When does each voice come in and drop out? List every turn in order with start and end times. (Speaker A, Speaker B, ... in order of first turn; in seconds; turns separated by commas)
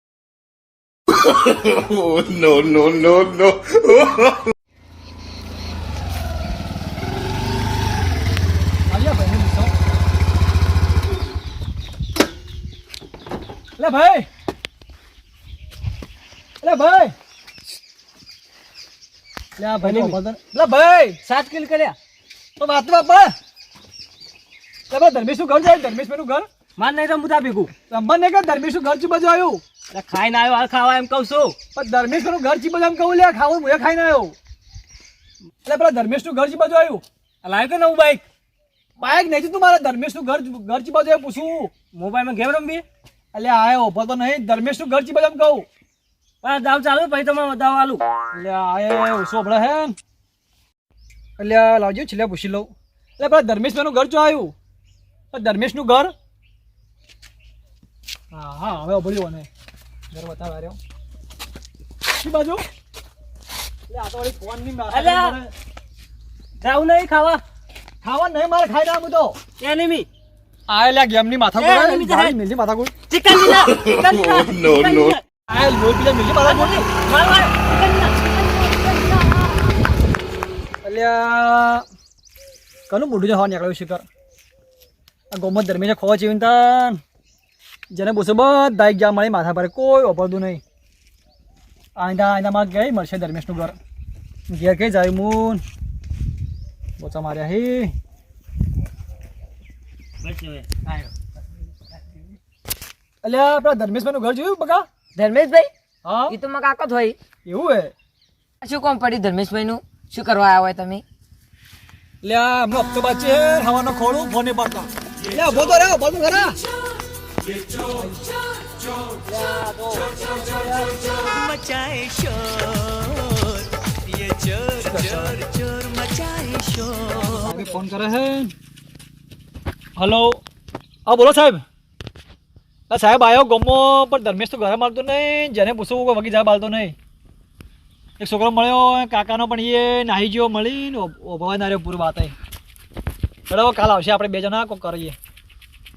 Speaker A: 1.1-4.4, Speaker B: 8.9-9.7, Speaker B: 13.8-14.3, Speaker B: 16.6-17.1, Speaker B: 19.6-21.2, Speaker C: 19.8-20.2, Speaker C: 21.2-21.9, Speaker B: 22.6-23.3, Speaker B: 24.9-26.5, Speaker C: 26.8-27.7, Speaker B: 27.9-29.6, Speaker C: 29.9-31.6, Speaker B: 31.7-34.4, Speaker B: 35.6-37.0, Speaker C: 37.4-38.2, Speaker B: 39.0-41.7, Speaker C: 41.9-42.8, Speaker B: 43.3-45.6, Speaker C: 46.4-48.0, Speaker B: 48.3-50.0, Speaker B: 51.4-54.5, Speaker B: 55.3-56.1, Speaker B: 58.3-59.5, Speaker B: 60.1-60.8, Speaker B: 62.1-62.7, Speaker B: 63.9-65.5, Speaker C: 64.9-65.3, Speaker C: 66.6-67.4, Speaker B: 68.0-69.4, Speaker C: 69.6-70.1, Speaker B: 70.7-72.9, Speaker C: 71.6-72.3, Speaker C: 73.1-75.2, Speaker A: 73.5-75.2, Speaker B: 75.5-76.8, Speaker C: 76.4-79.8, Speaker B: 80.8-81.8, Speaker B: 82.9-84.0, Speaker B: 85.3-87.0, Speaker B: 87.9-90.6, Speaker B: 92.0-93.8, Speaker B: 94.5-95.6, Speaker B: 97.0-97.9, Speaker C: 100.2-100.9, Speaker B: 103.2-104.8, Speaker D: 105.1-105.7, Speaker B: 106.0-106.4, Speaker D: 106.3-107.2, Speaker B: 107.4-107.9, Speaker D: 108.6-111.0, Speaker B: 112.2-116.6, Speaker B: 117.8-118.2, Speaker B: 119.2-120.8, Speaker C: 121.0-127.5, Speaker B: 124.8-125.4, Speaker B: 127.1-128.5, Speaker B: 129.9-130.4, Speaker B: 131.1-131.6, Speaker B: 132.9-136.9, Speaker B: 138.2-142.3, Speaker B: 143.5-145.2